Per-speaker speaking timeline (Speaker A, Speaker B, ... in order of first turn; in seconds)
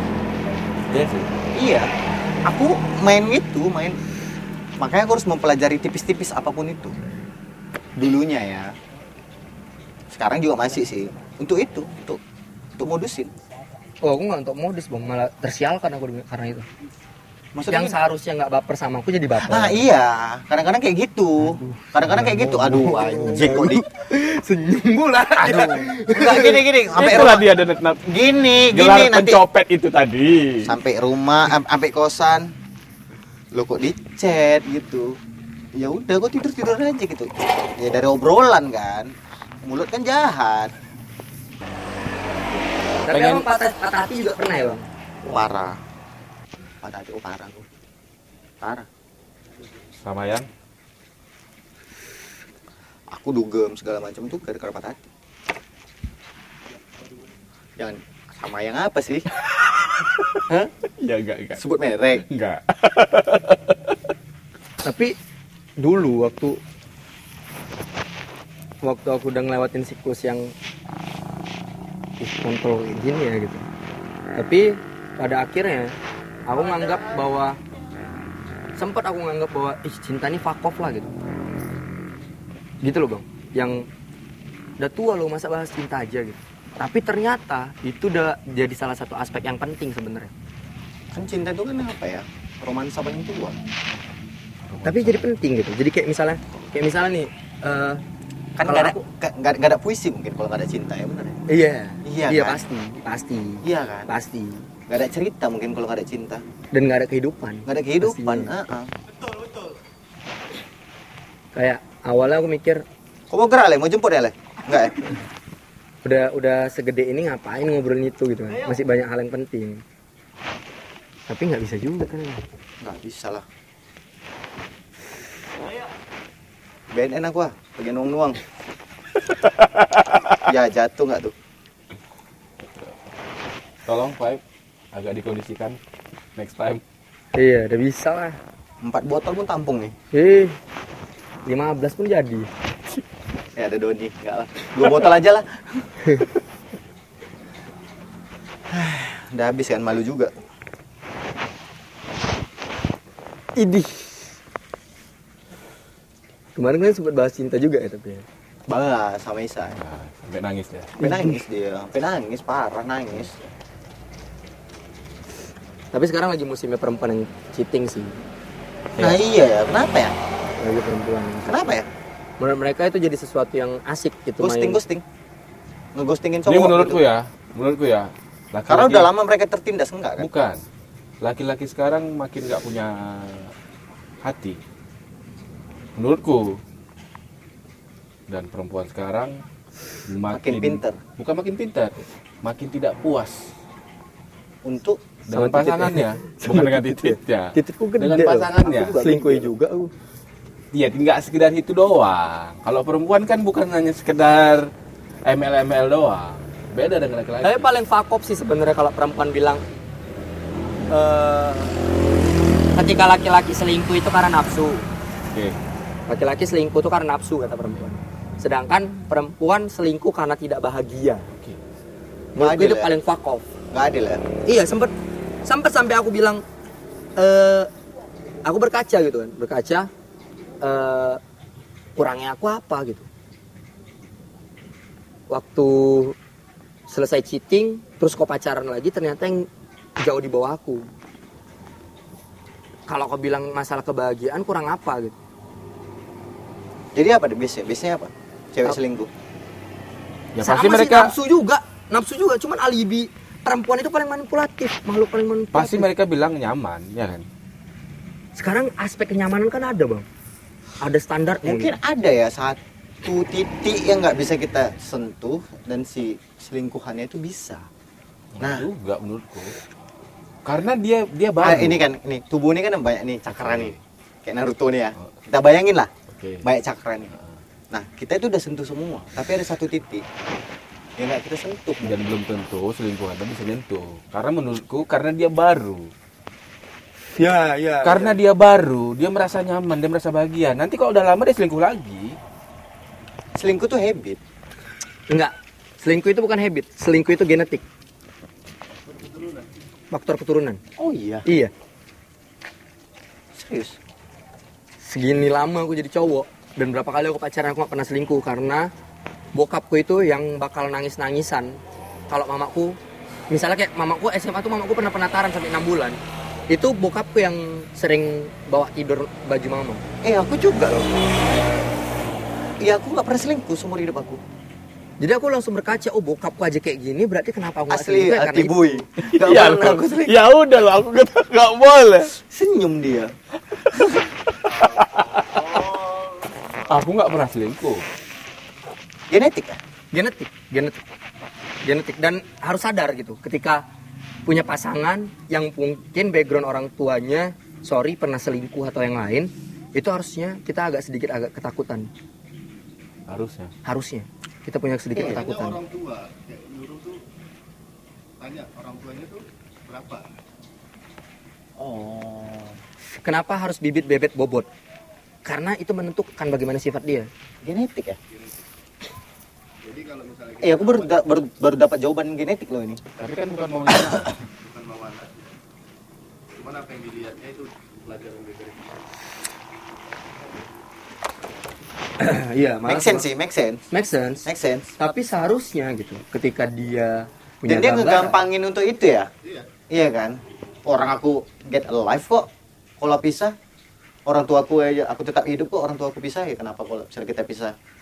Speaker A: 0.9-1.4, 25.4-25.9, 26.9-28.0, 28.7-30.7, 43.1-43.5, 50.0-50.5, 61.0-61.6, 62.2-64.0, 94.7-95.3, 129.7-130.2, 133.8-134.4, 134.9-135.8, 136.3-136.8, 159.8-160.9, 176.4-179.1, 180.2-180.6, 181.2-183.5, 184.2-184.6, 185.9-186.6, 188.3-189.4, 190.1-193.5, 195.3-199.0, 200.7-204.7, 205.2-207.7, 221.3-221.6, 250.3-251.1, 255.5-257.2, 268.3-269.6, 270.4-271.8, 273.3-273.8, 276.1-276.4, 281.8-285.9, 287.8-292.2, 329.0-332.1, 334.6-335.5, 336.7-337.8, 353.1-353.5, 373.0-374.1
Speaker B: 1.5-1.9, 2.5-4.0, 4.8-6.9, 8.0-8.7, 10.1-12.2, 12.8-13.3, 17.5-17.9, 19.4-23.8, 25.5-27.5, 28.1-29.4, 30.6-32.5, 33.5-35.1, 35.7-40.7, 45.2-45.8, 46.8-47.6, 48.6-48.9, 53.1-55.0, 57.8-59.3, 61.5-62.2, 91.1-93.6, 98.6-101.3, 102.0-102.6, 103.6-104.1, 104.9-106.4, 107.7-108.9, 113.3-115.0, 122.8-123.4, 126.9-128.4, 130.4-131.3, 138.8-139.9, 143.6-146.0, 148.7-150.3, 158.7-159.8, 161.0-163.3, 169.0-170.1, 171.4-171.9, 174.4-175.0, 175.9-177.0, 178.7-180.3, 190.3-191.0, 194.6-195.0, 198.6-199.5, 222.4-222.9, 223.7-224.2, 246.9-249.1, 261.4-267.6, 268.4-268.7, 271.4-275.9, 276.4-277.1, 277.7-280.0, 281.0-281.9, 293.4-294.2, 300.8-301.2, 303.3-303.8, 320.0-321.0, 322.6-324.2, 327.7-330.2, 332.3-333.1, 339.1-339.6, 354.9-355.2, 361.6-362.6, 367.4-368.0, 370.4-372.8, 382.6-383.6, 384.2-384.7, 387.5-389.1, 389.7-392.3, 392.8-393.3, 394.1-397.5
Speaker C: 14.0-16.6, 17.7-19.9, 21.4-26.6, 43.0-44.9, 64.8-65.1, 65.8-66.6, 68.8-70.5, 72.2-73.6, 74.3-75.9, 76.5-77.6, 78.8-81.1, 82.8-83.8, 84.8-90.3, 94.8-98.0, 98.6-99.0, 101.5-104.6, 106.7-108.5, 111.5-112.8, 116.0-119.8, 121.3-122.4, 137.3-138.4, 140.1-140.6, 141.4-142.5, 153.6-154.3, 156.6-158.2, 161.0-161.3, 165.9-168.2, 170.6-171.8, 172.4-174.8, 195.3-199.9, 207.4-209.6, 210.9-211.7, 212.7-214.9, 216.1-221.3, 222.3-223.5, 224.4-224.9, 225.4-226.4, 227.2-227.7, 228.4-229.9, 230.6-231.2, 231.9-233.1, 235.3-236.1, 236.9-239.5, 240.0-240.8, 242.9-245.1, 250.4-255.9, 258.4-260.1, 260.8-261.7, 287.1-288.2, 295.1-297.6, 299.9-300.6, 301.2-301.5, 304.8-308.7, 309.3-312.8, 313.3-316.0, 316.5-319.8, 325.0-328.8, 339.9-340.8, 341.6-343.6, 344.2-351.9, 353.6-355.6, 363.0-364.5, 365.2-367.1, 382.0-383.1, 383.7-384.2, 384.8-388.2
Speaker D: 298.8-299.6, 335.6-335.9, 355.1-357.0, 358.2-360.0, 368.1-368.4, 369.6-371.2, 374.2-375.3, 376.4-378.8, 389.2-389.5